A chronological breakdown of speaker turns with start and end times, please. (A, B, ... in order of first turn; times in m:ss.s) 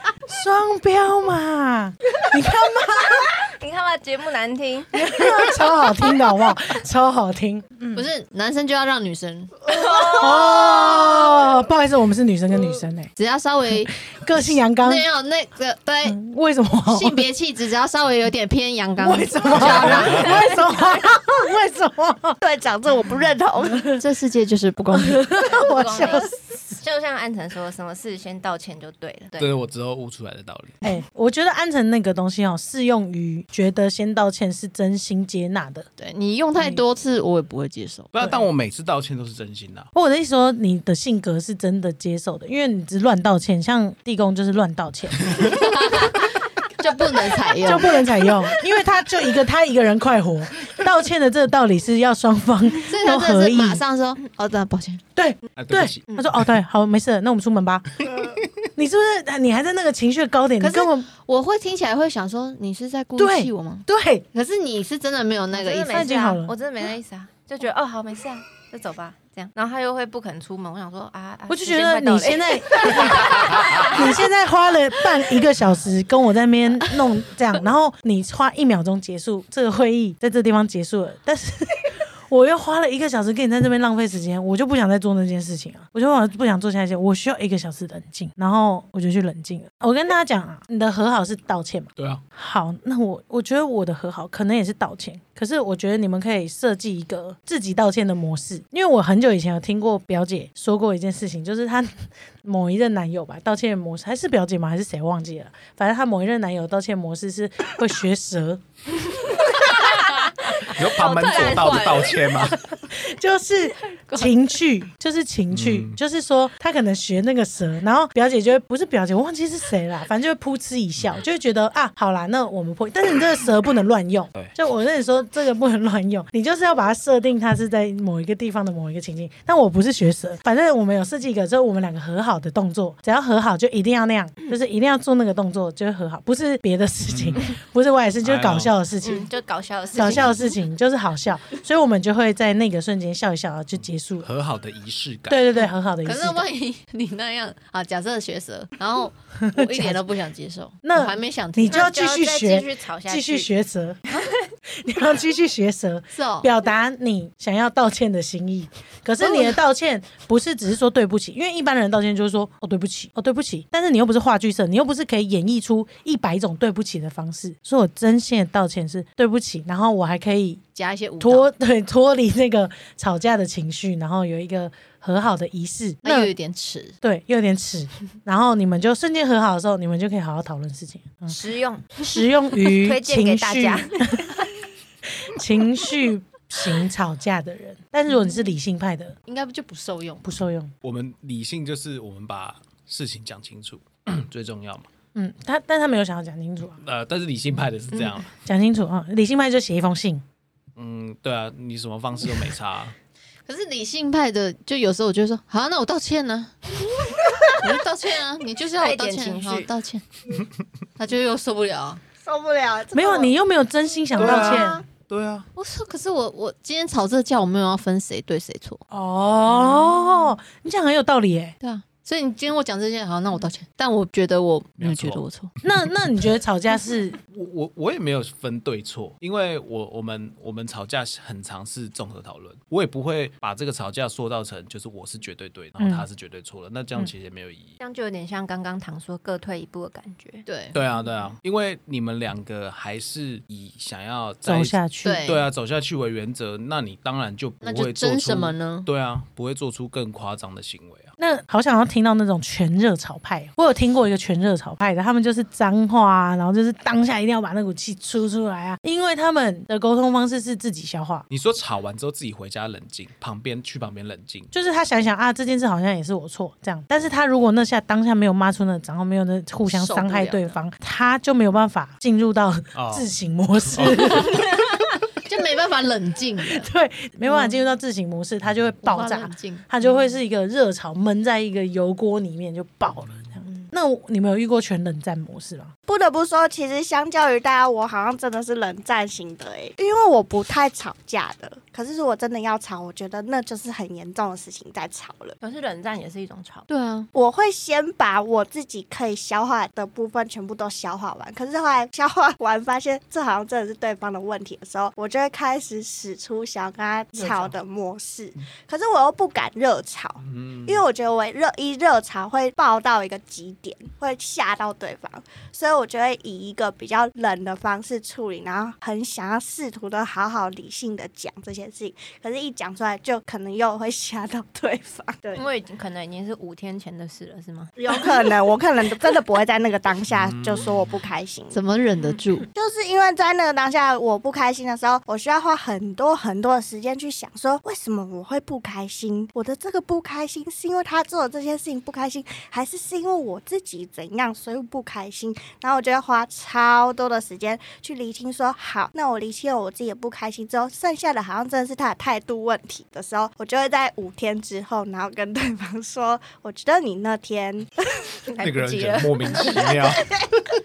0:00.3-0:03.3 A
0:03.3-0:05.3 B
0:04.9-0:08.0 A
0:07.9-0:09.6 C
0:09.7-0:11.4 B
0:09.9-0:13.1 A
0:13.2-0:16.2 C
0:13.8-0:15.0 A
0:16.0-0:17.3 A
0:16.9-0:20.4 C
0:19.0-0:22.4 A
0:19.6-0:20.2 D
0:22.4-0:23.9 E
0:23.9-0:25.4 C
0:24.9-0:26.3 A
0:25.4-0:29.5 B
0:29.4-0:30.8 D
0:30.8-0:35.9 A
0:36.0-0:38.1 C
0:36.6-0:36.8 A
0:38.1-0:39.9 D
0:39.9-0:45.6 A
0:45.5-0:48.1 C
0:47.6-0:53.8 A
0:52.8-0:55.0 C
0:55.2-0:58.0 A
0:55.6-0:56.2 D
0:58.8-1:01.1 A
1:00.6-1:06.1 C
1:03.2-1:04.3 A
1:05.5-1:14.1 B
1:05.9-1:06.5 A
1:11.5-1:48.6 A
1:32.0-1:32.2 D
1:49.4-1:52.5 B
1:50.6-1:52.6 D
1:52.8-2:19.3 A
1:55.5-1:56.0 D
2:17.1-2:17.4 D
2:18.2-2:18.7 D
2:19.0-2:20.5 B
2:19.9-2:24.3 A
2:24.2-2:25.4 D
2:25.3-2:26.5 A
2:26.0-2:31.9 C
2:29.4-2:30.0 A
2:30.8-2:34.0 A
2:31.7-2:33.5 B
2:34.8-2:50.7 A
2:36.1-2:36.5 C
2:39.3-2:39.6 C
2:50.7-2:51.5 C
2:51.2-2:56.3 A
2:56.0-2:57.0 C
2:57.0-3:01.4 A
3:01.3-3:04.5 B
3:02.0-3:04.4 A
3:05.2-3:09.2 A
3:09.3-3:10.3 C
3:10.2-3:10.7 A
3:10.8-3:14.9 D
3:15.2-3:16.8 A
3:16.8-3:18.3 D
3:18.4-3:20.2 A
3:20.8-3:23.0 D
3:23.5-3:26.5 C
3:27.5-3:30.0 C
3:28.8-3:29.7 B
3:31.0-3:32.0 C
3:32.2-3:33.3 E
3:32.9-3:34.8 A
3:34.2-3:35.5 D
3:34.2-3:34.8 E
3:35.6-3:38.8 C
3:38.9-3:41.6 A
3:39.5-3:40.3 C
3:41.6-3:45.5 C
3:44.8-3:45.2 D
3:45.6-3:47.2 A
3:47.3-3:57.8 D
3:55.8-3:56.1 A
3:57.8-4:00.4 B
4:00.5-4:00.8 C
4:00.7-4:11.1 D
4:04.4-4:05.3 A
4:05.0-4:05.4 C
4:07.6-4:08.9 C
4:11.2-4:21.3 A
4:21.3-4:24.5 D
4:24.5-4:34.4 A
4:29.6-4:30.6 C
4:32.7-4:33.1 D
4:33.7-4:34.2 D
4:35.2-4:36.7 C
4:36.4-4:45.7 A
4:37.2-4:37.6 C
4:38.8-4:40.0 C
4:45.9-4:55.4 E
4:55.4-4:56.7 B
4:56.7-4:57.1 C
4:57.1-5:25.4 E
5:10.3-5:10.8 D
5:25.4-5:28.2 B
5:27.8-5:31.6 E
5:30.1-5:30.9 D
5:31.5-5:32.5 C
5:32.5-5:58.1 E
5:58.3-5:59.8 B
5:58.4-6:00.2 D